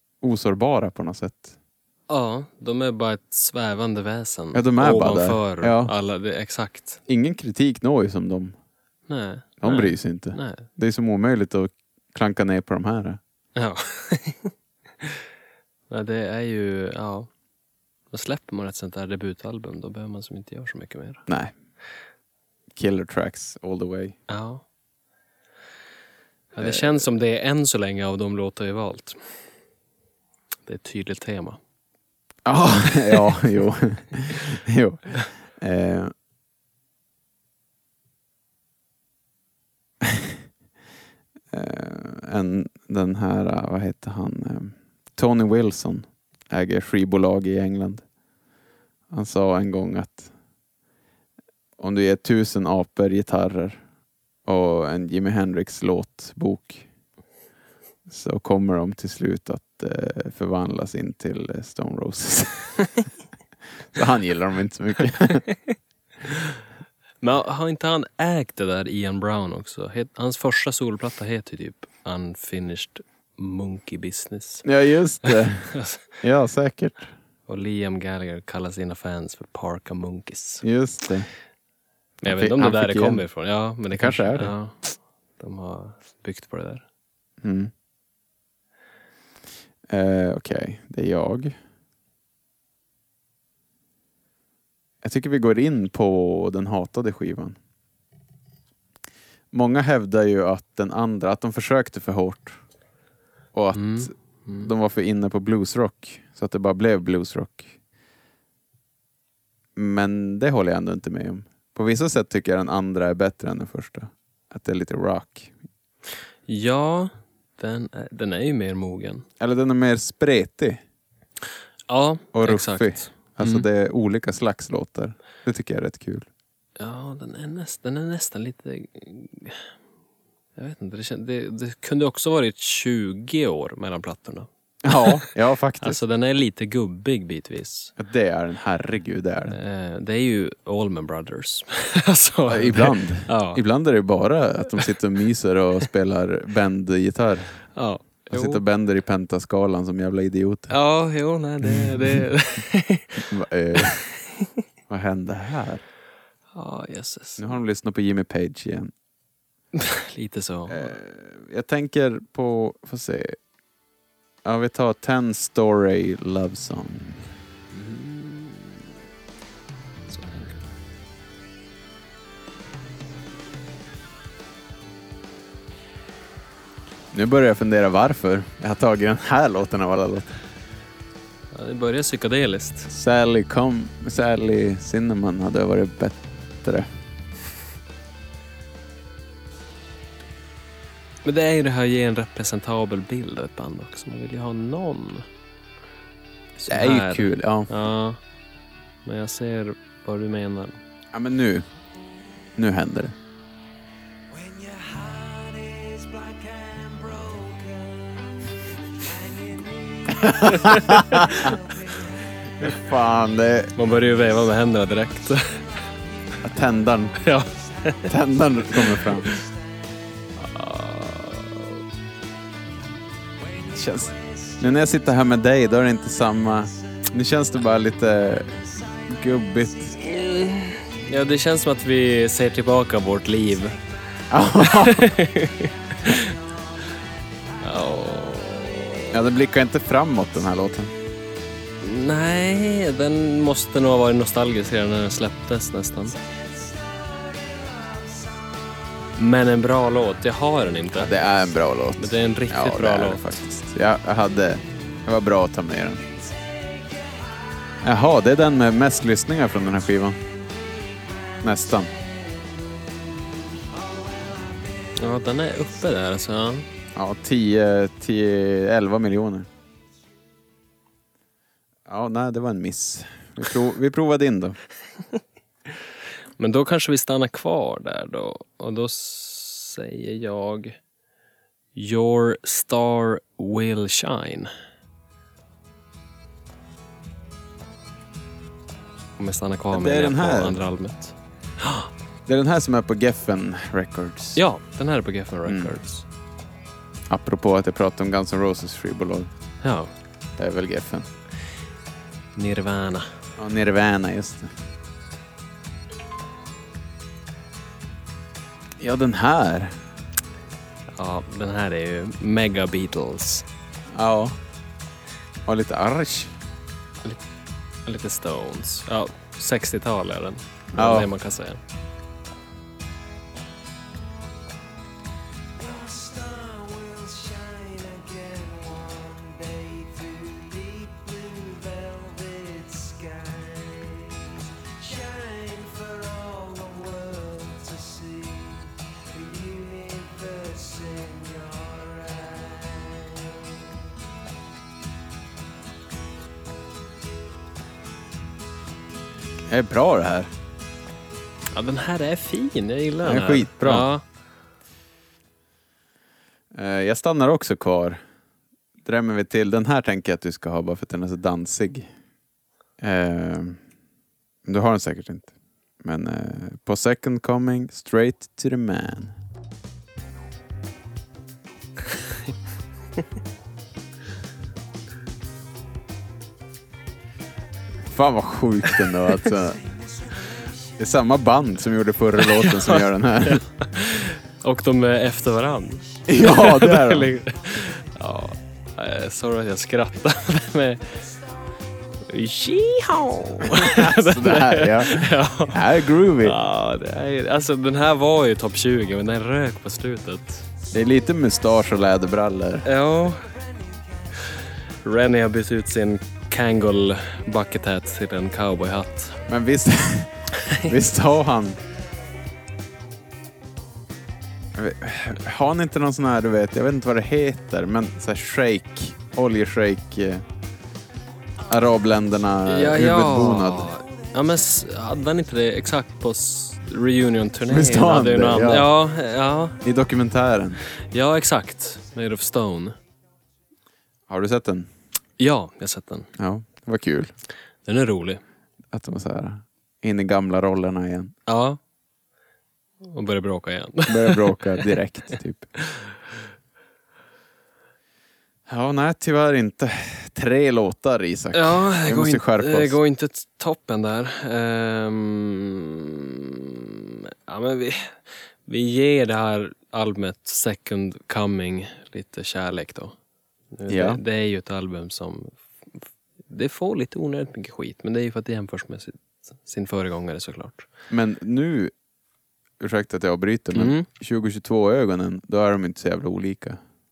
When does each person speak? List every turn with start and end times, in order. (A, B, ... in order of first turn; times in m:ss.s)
0:00.2-0:01.5 A
0:02.1-0:07.0 B
0:04.5-0:05.9 A
0:07.1-0:08.6 A
0:09.1-0:10.7 B
0:09.6-0:13.2 A
0:13.6-0:15.1 B
0:15.9-0:17.3 B
0:18.1-0:21.2 B
0:21.3-0:21.5 A
0:22.7-0:24.2 A
0:24.3-0:24.6 B
0:26.5-0:29.2 B
0:26.6-0:26.9 A
0:30.6-0:31.6 B
0:32.4-0:36.1 A
0:40.0-0:40.4 A
0:41.5-0:48.0 A
0:49.1-0:50.3 A
0:51.8-0:53.8 A
0:54.4-0:56.9 A
0:58.1-1:02.8 A
1:03.9-1:05.5 A
1:07.2-1:14.7 B
1:14.6-1:17.1 A
1:15.2-1:16.0 B
1:17.5-1:20.6 B
1:20.6-1:21.3 A
1:22.2-1:26.8 B
1:22.2-1:23.3 A
1:23.9-1:24.5 A
1:27.4-1:27.7 A
1:29.9-1:31.6 A
1:35.0-1:37.6 A
1:39.5-1:42.6 A
1:43.5-1:47.8 A
1:43.7-1:44.7 B
1:49.8-1:55.5 A
1:56.5-1:59.2 B
1:59.4-2:00.8 A
2:01.9-2:03.6 B
2:02.3-2:06.3 A
2:06.8-2:09.7 B
2:10.6-2:15.3 B
2:14.8-2:16.0 A
2:15.8-2:17.9 B
2:18.0-2:19.6 A
2:19.5-2:23.6 B
2:22.5-2:27.6 A
2:27.8-2:28.6 B
2:28.3-2:30.7 A
2:30.7-2:34.5 B
2:31.7-2:32.0 A
2:33.2-2:34.0 A
2:34.9-2:35.8 A
2:36.5-2:37.4 B
2:37.4-2:38.9 A
2:39.7-2:40.9 B
2:40.7-2:43.4 A
2:44.4-2:47.3 A
2:47.7-2:48.9 B
2:50.1-2:50.6 B
2:57.1-3:00.3 A
3:01.5-3:02.9 B
3:02.9-3:06.9 A
3:11.2-3:15.2 B
3:16.6-3:18.2 B
3:16.7-3:17.7 A
3:19.0-3:20.8 B
3:21.1-3:21.6 A
3:22.6-3:23.2 A
3:24.3-3:28.3 C
3:29.0-3:32.1 C
3:30.2-3:31.5 A
3:30.4-3:31.4 B
3:32.6-3:33.7 A
3:33.8-3:35.6 B
3:36.4-3:37.2 A
3:37.2-3:38.1 B
3:38.1-3:39.3 A
3:38.7-3:39.3 B
3:40.4-3:41.7 B
3:43.6-3:44.5 C
3:43.7-3:50.0 A
3:50.0-3:53.8 B
3:54.3-3:55.1 A
3:54.5-3:56.3 B
3:57.6-3:59.1 B
3:59.1-4:00.9 A
4:01.8-4:06.2 B
4:06.9-4:07.9 C
4:09.2-4:11.2 B
4:11.0-4:16.0 A
4:12.0-4:13.6 B
4:16.6-4:17.4 C
4:17.8-4:20.2 A
4:21.4-4:21.9 A
4:23.8-4:24.6 C
4:25.0-4:26.7 B
4:26.9-4:29.5 A
4:31.9-4:34.6 A
4:36.4-4:40.8 B
4:41.7-4:44.5 B
4:49.2-4:51.9 B
4:49.7-4:50.6 A
4:52.2-4:54.4 A
4:54.3-4:56.0 B
4:55.4-4:55.7 A
4:57.1-4:59.3 A
4:59.6-4:59.9 B
5:00.4-5:01.1 A
5:02.3-5:03.1 B
5:03.4-5:04.5 A
5:08.8-5:09.8 A
5:10.9-5:13.5 B
5:13.9-5:14.4 A
5:15.4-5:16.3 A
5:17.8-5:21.6 B
5:20.7-5:21.1 A
5:25.6-5:43.5 C
5:49.5-5:50.3 A
5:51.5-5:54.0 B
5:53.0-5:53.9 A
5:56.5-5:58.0 A
5:58.8-6:01.9 A
6:02.8-6:03.6 A
6:04.4-6:09.1 A
6:17.9-6:19.6 A
6:20.8-6:23.4 A
6:22.2-6:31.0 B
6:26.1-6:27.2 A
6:32.1-6:40.4 B
6:33.4-6:36.4 A
6:40.7-6:42.6 A
6:42.6-6:43.3 B
6:44.8-6:49.2 B
6:49.3-6:51.6 A
6:54.5-7:00.2 A
7:01.5-7:03.7 A
7:02.4-7:09.6 B
7:07.5-7:08.7 A
7:09.6-7:10.6 A
7:10.9-7:12.7 B
7:14.1-7:14.7 A
7:15.2-7:16.1 B
7:16.2-7:17.1 A
7:17.6-7:18.2 B
7:18.7-7:21.1 A
7:21.3-7:21.6 B
7:22.8-7:24.7 B
7:23.8-7:25.5 A
7:28.5-7:32.8 A
7:31.3-7:42.9 B
7:43.5-7:50.7 B
7:43.7-7:44.0 A
7:50.9-7:51.7 A
7:52.6-7:56.6 A
7:53.5-7:53.9 B